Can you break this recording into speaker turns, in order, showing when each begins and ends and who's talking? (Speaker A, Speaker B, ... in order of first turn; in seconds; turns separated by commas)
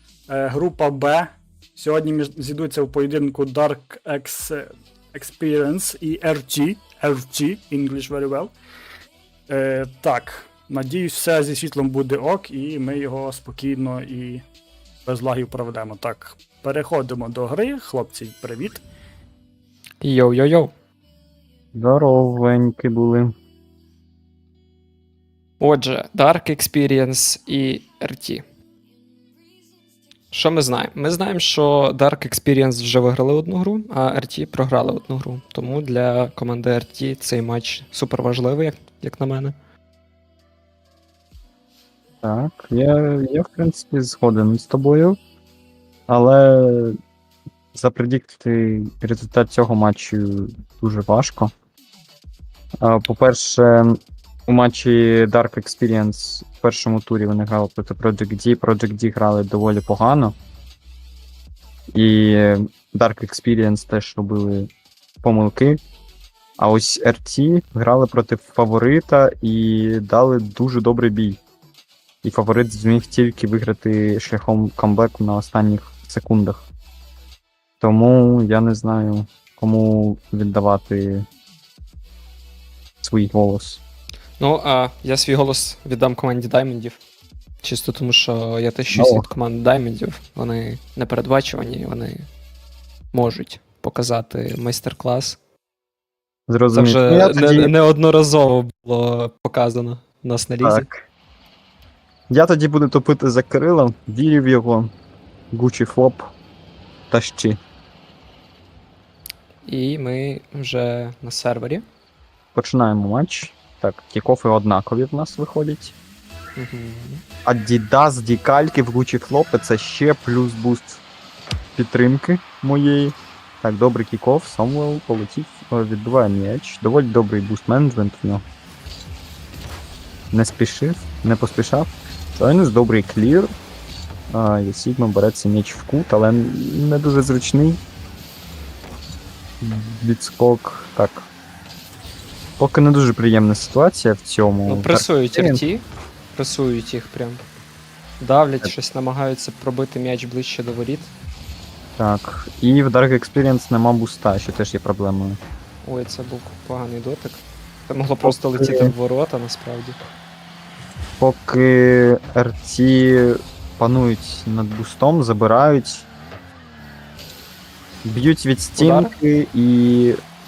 Speaker A: 0.3-8.5, Speaker A: 9.5-14.4, Speaker A: 15.1-18.8, Speaker B: 20.0-20.7, Speaker C: 21.7-23.3, Speaker B: 25.6-28.4, Speaker B: 30.3-39.5, Speaker C: 42.2-45.2, Speaker C: 46.1-47.0, Speaker C: 47.8-51.5, Speaker C: 52.8-60.4, Speaker C: 62.0-64.7, Speaker C: 65.2-65.8, Speaker C: 66.6-71.4, Speaker C: 72.2-76.6, Speaker C: 77.8-81.3, Speaker C: 83.0-83.8, Speaker B: 84.4-87.0, Speaker B: 87.6-92.3, Speaker C: 88.9-89.3, Speaker B: 93.1-95.4, Speaker C: 96.5-97.7, Speaker B: 96.7-100.9, Speaker C: 100.6-101.0, Speaker C: 102.3-104.9, Speaker C: 105.5-106.2, Speaker C: 107.1-107.6, Speaker B: 109.7-111.8, Speaker C: 112.5-115.9, Speaker B: 116.6-117.2, Speaker C: 117.5-121.0, Speaker C: 121.8-128.4, Speaker C: 130.3-133.5, Speaker C: 134.3-137.8, Speaker C: 139.6-141.3, Speaker C: 142.6-145.6, Speaker B: 144.7-147.4, Speaker B: 148.2-151.1, Speaker C: 152.0-155.4, Speaker B: 155.8-160.0, Speaker C: 158.2-158.9, Speaker C: 161.2-166.1, Speaker C: 168.1-170.2, Speaker B: 168.8-169.1